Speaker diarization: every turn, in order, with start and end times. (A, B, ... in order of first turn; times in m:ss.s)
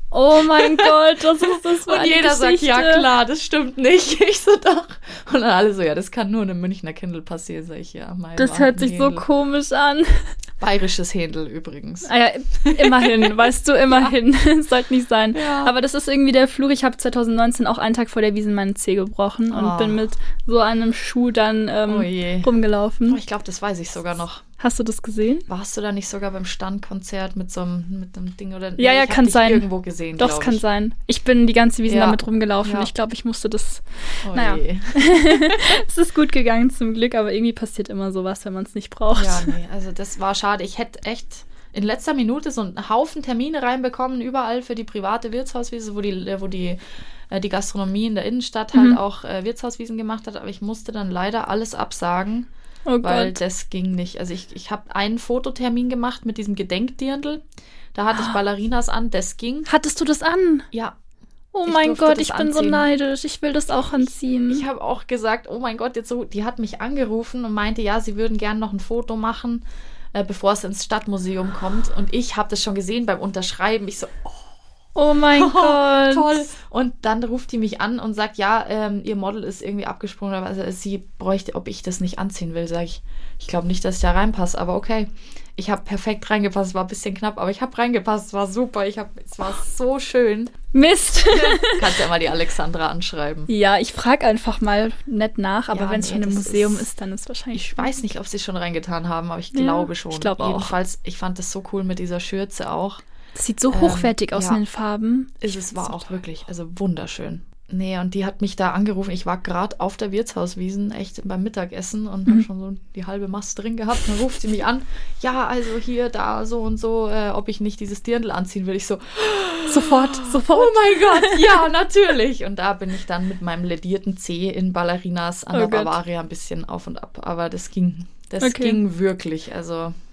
0:00.1-0:03.1 A
0:00.3-0:09.2 B
0:08.4-0:10.3 A
0:10.6-0:14.1 B
0:12.0-0:23.2 A
0:15.3-0:15.7 B
0:19.5-0:20.0 B
0:21.9-0:22.5 B
0:23.1-0:24.4 B
0:24.6-0:25.5 A
0:25.5-0:30.6 B
0:28.8-0:39.5 A
0:31.9-0:32.9 B
0:34.2-0:35.6 B
0:39.2-0:46.8 B
0:47.3-0:52.5 B
0:48.7-0:49.0 A
0:52.9-0:53.4 A
0:53.0-0:57.4 B
0:57.9-0:59.7 B
0:59.6-1:00.7 A
1:00.7-1:01.0 B
1:01.5-1:04.6 A
1:01.6-1:02.9 B
1:04.5-1:14.5 B
1:15.0-1:16.4 A
1:15.3-1:30.5 B
1:30.7-1:31.9 A
1:31.3-1:33.5 B
1:33.5-1:38.0 A
1:35.7-1:36.9 B
1:37.5-1:43.0 B
1:39.5-1:40.7 A
1:43.4-1:46.1 A
1:43.7-1:44.6 B
1:45.4-2:09.9 B
1:59.7-2:01.6 A
2:05.5-2:05.9 A
2:08.4-2:08.8 A